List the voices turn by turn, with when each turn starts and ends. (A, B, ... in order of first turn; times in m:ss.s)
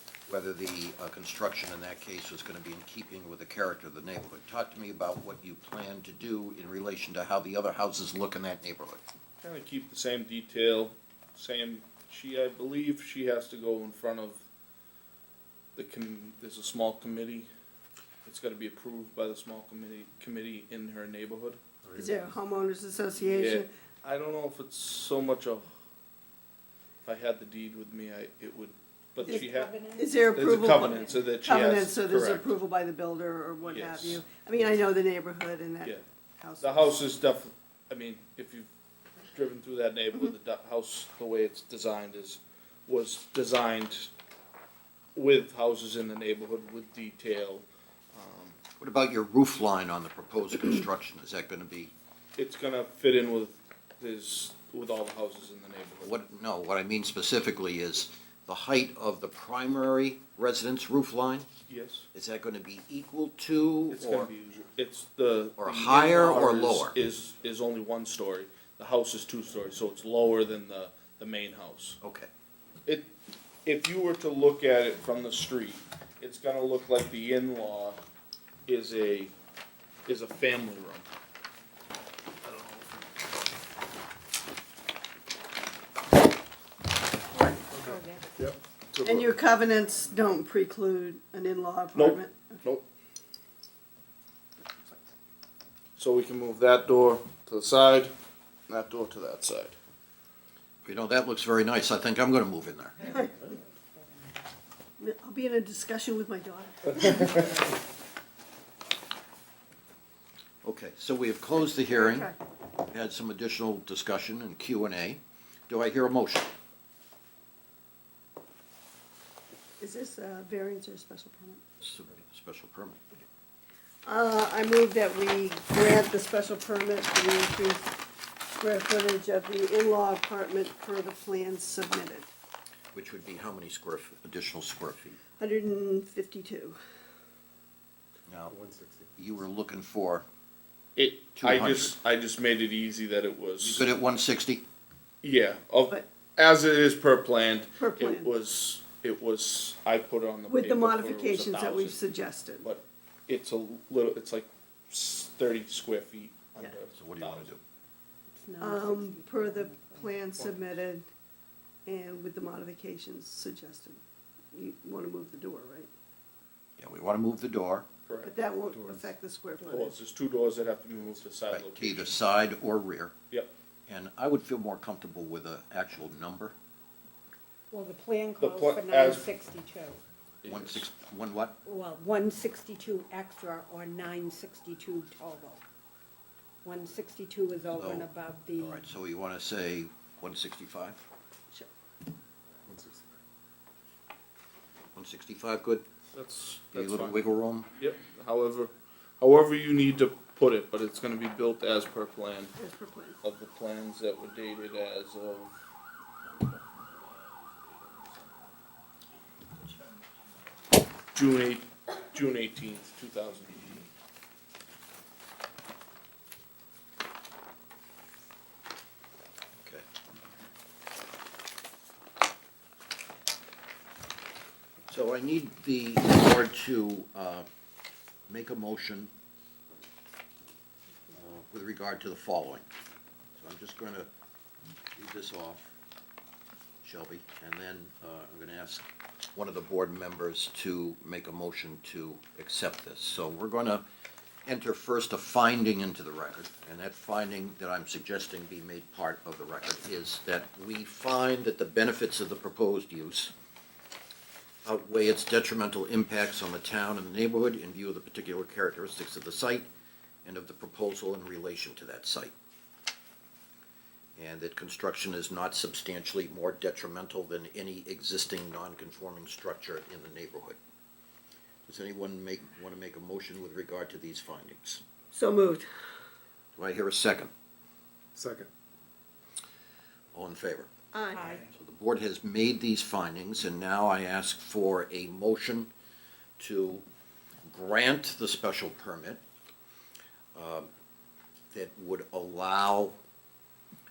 0:00.3-0:09.0 A
0:09.4-0:14.4 B
0:15.8-0:17.5 B
0:18.2-0:21.6 B
0:21.8-0:22.3 C
0:22.0-0:23.7 D
0:23.4-0:25.7 B
0:27.0-0:29.7 B
0:29.2-0:31.0 E
0:29.2-0:37.0 D
0:30.3-0:32.5 B
0:33.6-0:34.2 B
0:36.6-0:38.7 B
0:39.3-0:44.1 B
0:45.2-0:48.6 B
0:48.8-0:51.9 A
0:52.4-0:56.1 B
0:56.0-1:01.5 A
1:01.7-1:02.1 B
1:02.1-1:04.3 A
1:03.9-1:12.0 B
1:05.6-1:07.0 A
1:12.0-1:12.3 A
1:13.6-1:18.0 B
1:18.7-1:19.3 B
1:20.1-1:21.1 B
1:22.4-1:23.0 B
1:27.3-1:28.6 E
1:27.8-1:28.5 C
1:28.9-1:29.3 B
1:29.0-1:32.6 D
1:32.0-1:32.8 B
1:36.0-1:38.1 B
1:38.7-1:39.8 B
1:40.8-1:43.0 A
1:45.0-1:47.4 D
1:50.6-1:56.5 A
1:51.9-1:52.4 D
1:59.8-2:01.6 D
2:01.8-2:03.0 A
2:04.0-2:08.0 D
2:08.6-2:12.3 D
2:12.9-2:15.2 A
2:15.4-2:16.8 D
2:18.3-2:18.6 A
2:18.5-2:19.1 C
2:19.2-2:20.2 A
2:21.0-2:23.9 B
2:21.4-2:22.0 A
2:23.6-2:24.6 A
2:25.2-2:32.0 B
2:27.8-2:28.3 D
2:30.5-2:32.7 D
2:32.6-2:37.5 B
2:37.0-2:37.6 A
2:38.3-2:40.2 E
2:38.6-2:41.0 D
2:41.9-2:44.0 D
2:44.5-2:45.9 D
2:46.8-2:47.9 A
2:48.1-2:48.3 B
2:48.2-2:50.0 D
2:49.7-2:52.2 B
2:51.5-2:53.1 A
2:53.9-2:56.6 A
2:57.7-3:00.0 E
2:58.4-2:59.3 B
3:00.4-3:00.9 B
3:00.5-3:01.6 A
3:01.6-3:05.6 E
3:06.6-3:08.8 E
3:07.7-3:11.0 A
3:12.7-3:13.2 C
3:15.0-3:15.8 A
3:16.1-3:17.2 B
3:16.7-3:17.7 A
3:17.8-3:22.6 B
3:22.6-3:23.2 D
3:23.2-3:25.6 B
3:27.3-3:28.3 B
3:31.2-3:33.9 B
3:44.9-3:47.5 A
3:48.3-3:49.1 A
3:51.1-3:52.6 A
3:53.4-3:54.1 A
3:55.0-3:55.7 A
3:56.8-4:03.8 A
4:04.5-4:13.3 A
4:14.6-4:19.7 A
4:20.2-4:22.3 A
4:24.2-4:30.6 A
4:31.7-4:34.8 A
4:35.1-4:35.6 D
4:36.6-4:37.3 A
4:38.2-4:38.5 C
4:40.1-4:40.7 A
4:40.9-4:41.4 D
4:41.2-4:45.7 A
4:46.4-4:46.8 A
4:47.5-4:49.2 A
4:50.4-4:50.7 A
4:51.5-4:53.0 A